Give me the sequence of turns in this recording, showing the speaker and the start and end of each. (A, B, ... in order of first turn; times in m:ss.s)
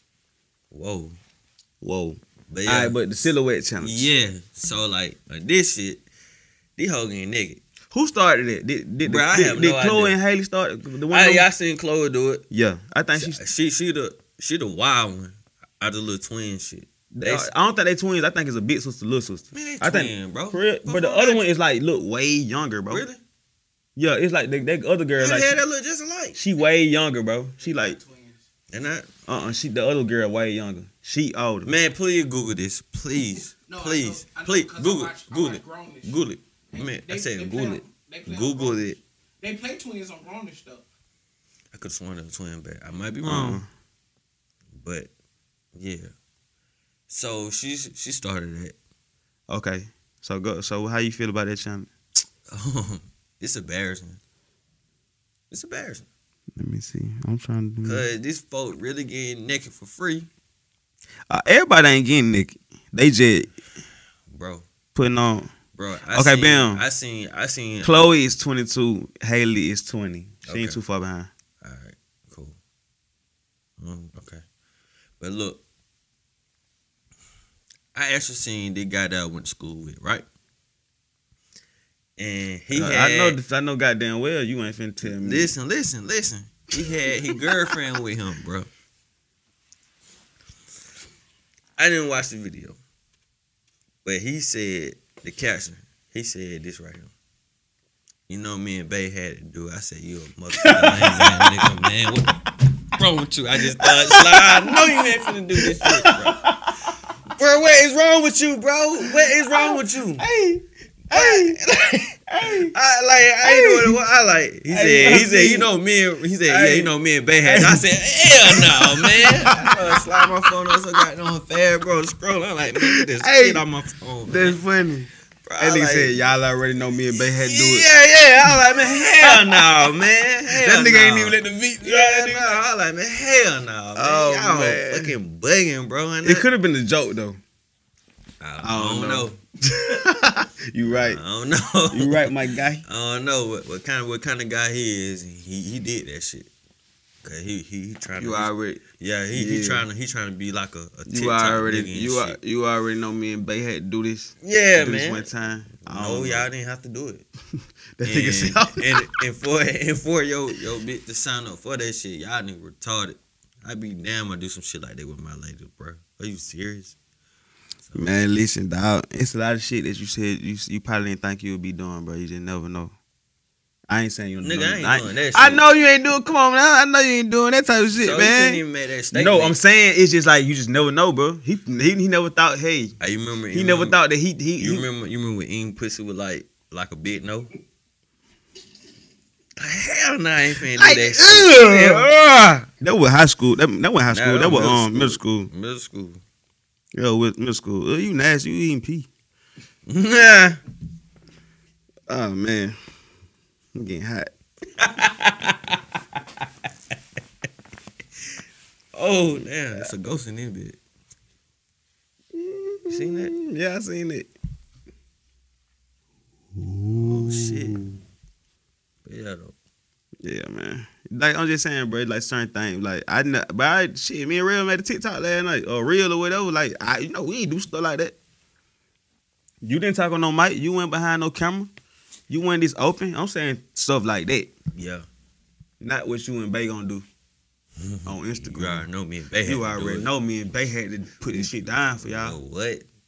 0:00.7-0:01.2 A
0:01.8-0:04.1 B
0:02.5-0:03.0 A
0:03.8-0:06.0 A
0:06.8-0:07.6 A
0:07.9-0:11.4 B
0:09.0-0:10.2 A
0:11.1-0:12.4 A
0:12.5-0:13.4 B
0:13.1-0:17.5 A
0:17.1-0:23.0 B
0:19.5-0:21.4 A
0:22.9-0:23.2 A
0:24.0-0:25.6 B
0:25.2-0:26.4 A
0:26.3-0:28.0 B
0:27.6-0:28.4 C
0:28.7-0:29.1 A
0:29.3-0:31.7 B
0:31.6-0:39.0 A
0:33.7-0:36.2 C
0:36.7-0:40.8 C
0:41.7-0:43.6 A
0:43.2-0:43.7 B
0:44.8-0:45.1 A
0:45.7-0:46.1 A
0:47.1-0:48.8 A
0:49.5-0:51.9 B
0:52.5-0:54.2 A
0:55.5-0:56.1 A
0:56.6-0:58.0 B
0:57.8-1:00.3 A
1:01.3-1:03.5 B
1:04.3-1:04.6 A
1:04.9-1:05.5 B
1:05.8-1:08.1 A
1:06.1-1:06.8 B
1:07.8-1:11.3 B
1:10.4-1:10.8 A
1:11.6-1:12.6 A
1:13.8-1:14.4 A
1:15.2-1:15.6 A
1:17.9-1:20.2 A
1:22.2-1:23.4 A
1:22.7-1:25.5 B
1:25.0-1:28.7 A
1:31.8-1:32.8 A
1:34.0-1:37.1 A
1:38.3-1:46.4 A
1:40.6-1:41.7 B
1:43.8-1:46.7 B
1:47.3-1:50.2 A
1:49.0-1:51.6 B
1:51.1-2:04.6 A
1:52.3-1:52.7 B
1:53.4-1:54.0 B
1:54.7-1:55.7 B
1:56.5-2:00.0 B
2:02.8-2:03.6 B
2:04.3-2:07.9 B
2:05.4-2:06.2 A
2:07.4-2:16.4 A
2:08.4-2:09.9 B
2:10.5-2:12.6 B
2:14.0-2:15.2 B
2:16.2-2:17.4 B
2:18.4-2:19.4 A
2:18.6-2:21.2 B
2:21.0-2:26.5 A
2:21.9-2:22.8 B
2:27.2-2:32.4 A
2:28.2-2:29.8 B
2:31.1-2:36.5 B
2:34.4-2:35.3 A
2:35.8-2:37.2 A
2:38.0-2:39.0 B
2:38.0-2:47.0 A
2:47.8-2:48.1 A
2:47.9-2:52.9 B
2:53.9-3:02.9 B
2:54.4-2:55.6 A
2:58.0-2:59.6 A
3:03.0-3:04.0 A
3:03.5-3:04.8 B
3:04.6-3:07.5 A
3:09.6-3:12.2 A
3:10.8-3:15.5 B
3:14.1-3:16.2 A
3:16.9-3:19.1 B
3:19.8-3:20.6 A
3:22.1-3:22.8 B
3:23.7-3:24.3 B
3:24.8-3:25.7 A
3:28.9-3:30.8 A
3:32.3-3:34.3 B
3:32.9-3:33.3 A
3:36.6-3:38.0 B
3:36.9-3:37.8 A
3:39.0-3:39.5 A
3:40.2-3:48.2 B
3:49.6-3:51.7 B
3:52.3-3:54.5 B
3:54.7-3:55.0 A
3:55.8-3:57.0 B
3:57.8-4:00.1 A
3:58.0-3:58.9 B
3:59.4-4:02.4 B
4:01.3-4:02.8 A